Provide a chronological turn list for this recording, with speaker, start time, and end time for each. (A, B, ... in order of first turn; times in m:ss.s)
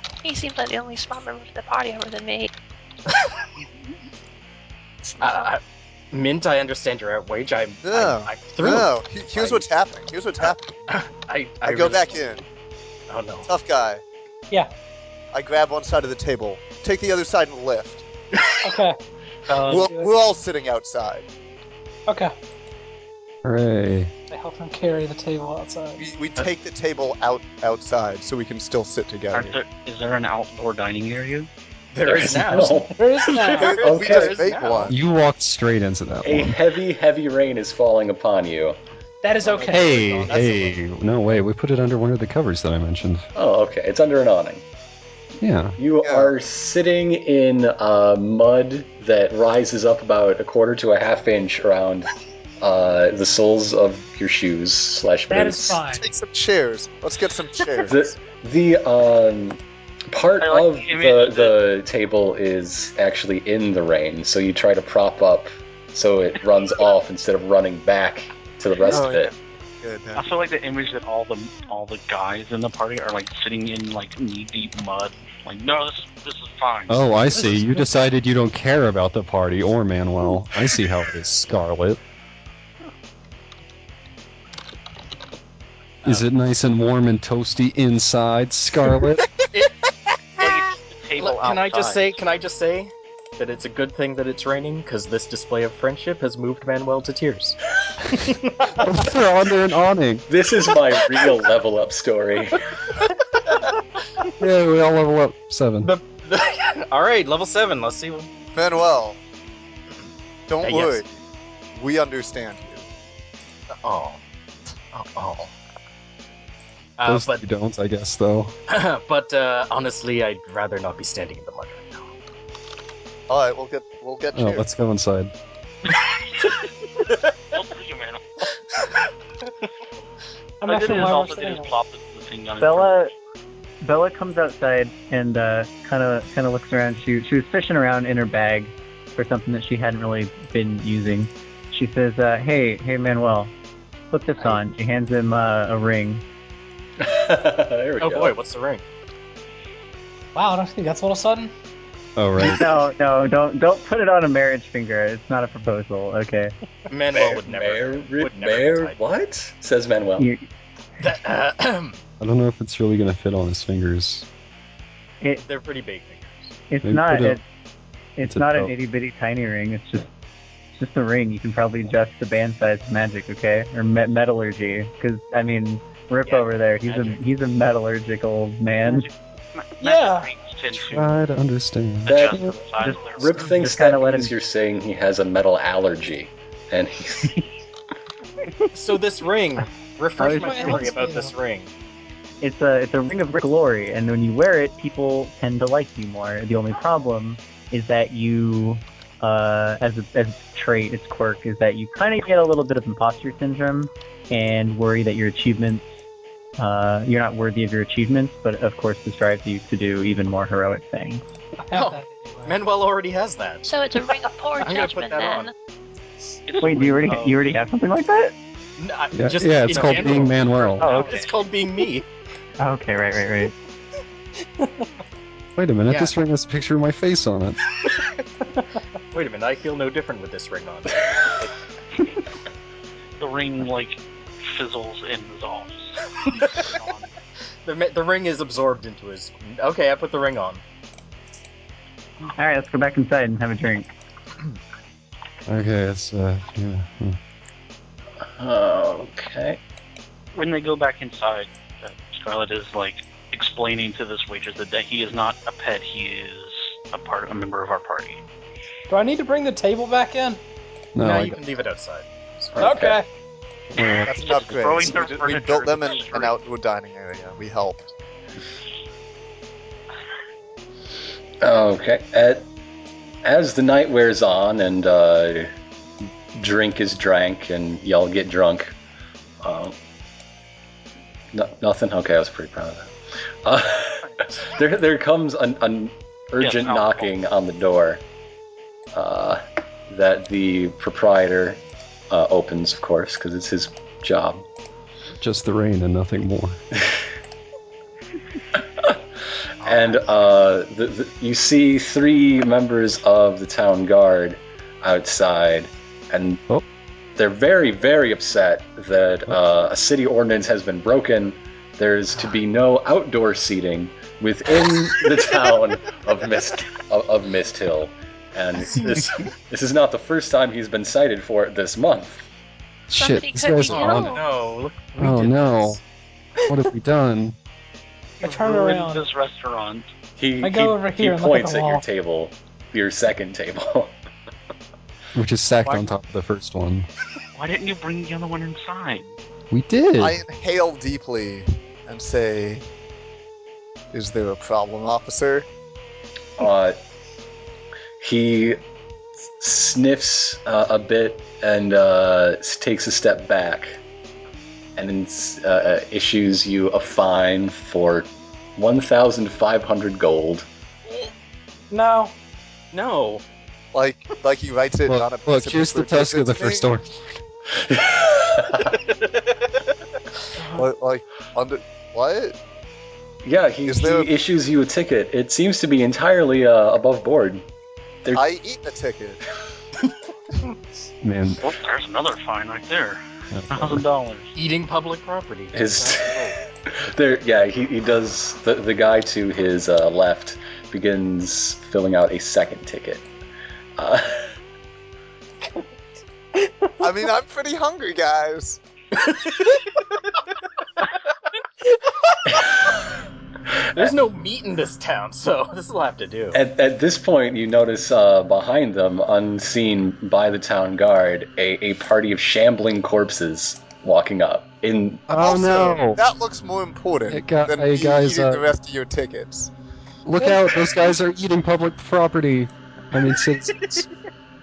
0:00.2-0:02.5 A
0:03.1-0:03.4 B
0:05.2-0:09.7 B
0:07.8-0:10.8 C
0:10.4-0:12.3 B
0:11.6-0:12.4 C
0:13.1-0:13.5 B
0:13.5-0:14.0 C
0:15.3-0:18.0 C
0:18.3-0:18.6 B
0:18.6-0:19.0 D
0:19.5-0:19.9 E
0:19.7-0:21.3 C
0:19.7-0:20.1 D
0:22.1-0:22.3 D
0:23.4-0:24.1 F
0:24.3-0:26.0 D
0:26.0-0:29.6 C
0:29.3-0:31.5 E
0:31.9-0:34.9 B
0:32.0-0:34.4 G
0:33.0-0:33.9 D
0:33.6-0:35.0 C
0:34.9-0:36.6 F
0:36.2-0:38.8 G
0:39.2-0:40.4 D
0:39.5-0:40.5 B
0:39.7-0:43.3 F
0:40.2-0:40.7 C
0:43.4-0:44.6 G
0:45.4-0:45.8 F
0:45.8-0:55.8 G
0:46.0-0:46.3 C
0:55.3-0:56.1 D
0:55.9-0:58.2 C
0:57.9-0:59.6 G
1:00.1-1:09.3 G
1:00.4-1:01.6 E
1:08.9-1:10.2 C
1:10.2-1:17.6 E
1:16.9-1:22.0 F
1:26.0-1:29.3 F
1:29.0-1:30.6 B
1:30.4-1:32.2 E
1:31.2-1:37.6 B
1:38.1-1:39.1 B
1:38.7-1:40.3 F
1:40.3-1:42.8 G
1:44.4-1:45.9 F
1:45.8-1:48.3 B
1:48.5-1:49.2 C
1:50.5-1:51.1 C
1:50.6-1:51.0 B
1:51.7-1:52.9 C
1:53.8-1:54.2 B
1:54.9-1:55.5 B
1:57.0-1:57.4 B
1:57.1-1:58.6 F
1:58.7-2:02.1 B
2:03.3-2:04.7 C
2:04.4-2:05.3 F
2:07.5-2:08.5 E
2:10.6-2:11.8 D
2:10.6-2:13.0 E
2:12.6-2:13.1 H
2:13.8-2:23.5 H
2:24.1-2:26.2 H
2:27.0-2:28.4 G
2:28.0-2:28.8 B
2:30.4-2:31.5 D
2:32.2-2:32.7 F
2:32.4-2:36.6 H
2:36.9-2:39.0 B
2:37.1-2:40.3 G
2:40.2-2:40.5 H
2:41.0-2:42.0 B
2:42.2-2:44.3 F
2:45.4-2:46.6 B
2:46.7-2:47.4 H
2:46.9-2:47.4 F
2:48.2-2:50.1 H
2:48.3-2:48.7 F
2:50.7-2:59.1 H
2:56.3-2:57.2 B
2:58.8-3:01.1 E
2:59.8-3:00.3 D
3:00.8-3:02.5 F
3:02.1-3:03.6 E
3:02.1-3:02.4 G
3:02.8-3:04.3 H
3:03.2-3:07.4 G
3:08.7-3:11.7 B
3:10.2-3:11.3 D
3:10.2-3:10.9 H
3:12.4-3:25.9 H
3:26.6-3:31.2 H
3:31.7-3:32.6 D
3:31.7-3:35.5 B
3:33.7-3:35.5 A
3:36.5-3:37.6 E
3:36.6-3:38.4 H
3:38.8-3:42.1 B
3:39.1-3:40.9 F
3:40.8-3:41.3 E
3:40.8-3:41.3 H
3:42.6-3:43.6 H
3:45.6-3:47.6 F
3:45.9-3:46.2 B
3:47.8-3:48.1 B
3:49.1-3:51.5 B
3:53.2-3:57.1 E
3:56.2-3:56.7 B
3:57.6-4:00.6 B
4:02.4-4:03.9 H
4:05.5-4:07.2 F
4:08.4-4:09.6 G
4:10.3-4:18.2 E
4:18.9-4:20.4 D
4:21.0-4:21.4 F
4:21.0-4:22.6 B
4:22.6-4:23.0 G
4:22.6-4:23.1 D
4:23.8-4:24.1 F
4:23.8-4:26.3 E
4:24.1-4:27.9 C
4:31.4-4:32.5 G
4:33.2-4:35.5 G
4:36.4-4:38.7 G
4:39.4-4:39.8 G
4:41.3-4:48.0 G
4:46.4-4:47.1 E
4:48.9-4:54.4 G
4:55.2-4:56.6 F
4:59.6-5:06.4 G
4:59.6-5:00.0 B
5:07.2-5:22.3 G
5:18.6-5:19.3 B
5:22.9-5:24.2 F
5:22.9-5:24.2 A
5:23.7-5:25.8 B
5:25.0-5:25.8 F
5:26.5-5:27.4 F
5:28.2-5:29.0 D
5:28.2-5:29.9 E
5:30.2-5:34.0 G
5:30.4-5:31.8 D
5:35.1-5:36.9 F
5:37.3-5:39.1 E
5:39.5-5:40.2 F
5:40.0-5:42.7 C
5:43.9-5:45.5 C
5:46.4-5:46.8 G
5:48.0-5:48.6 G
5:49.4-5:53.8 G
5:54.8-6:00.5 G
6:01.7-6:02.1 D
6:02.7-6:03.2 B
6:03.7-6:06.7 C
6:04.9-6:07.0 F
6:07.6-6:08.7 G
6:08.6-6:09.2 B
6:10.6-6:12.4 C
6:13.2-6:17.4 G
6:13.7-6:14.1 C
6:18.1-6:19.2 C
6:21.0-6:21.5 F
6:21.4-6:24.3 E
6:23.3-6:23.8 F
6:24.4-6:26.4 B
6:25.5-6:33.0 G
6:33.8-6:34.3 G
6:36.8-6:38.6 C
6:39.0-6:39.7 B
6:43.8-6:46.4 B
6:46.3-6:55.1 G
6:55.1-6:56.0 F
6:55.1-6:59.5 C
6:57.1-6:58.4 F
7:00.0-7:03.9 F
7:03.6-7:03.8 B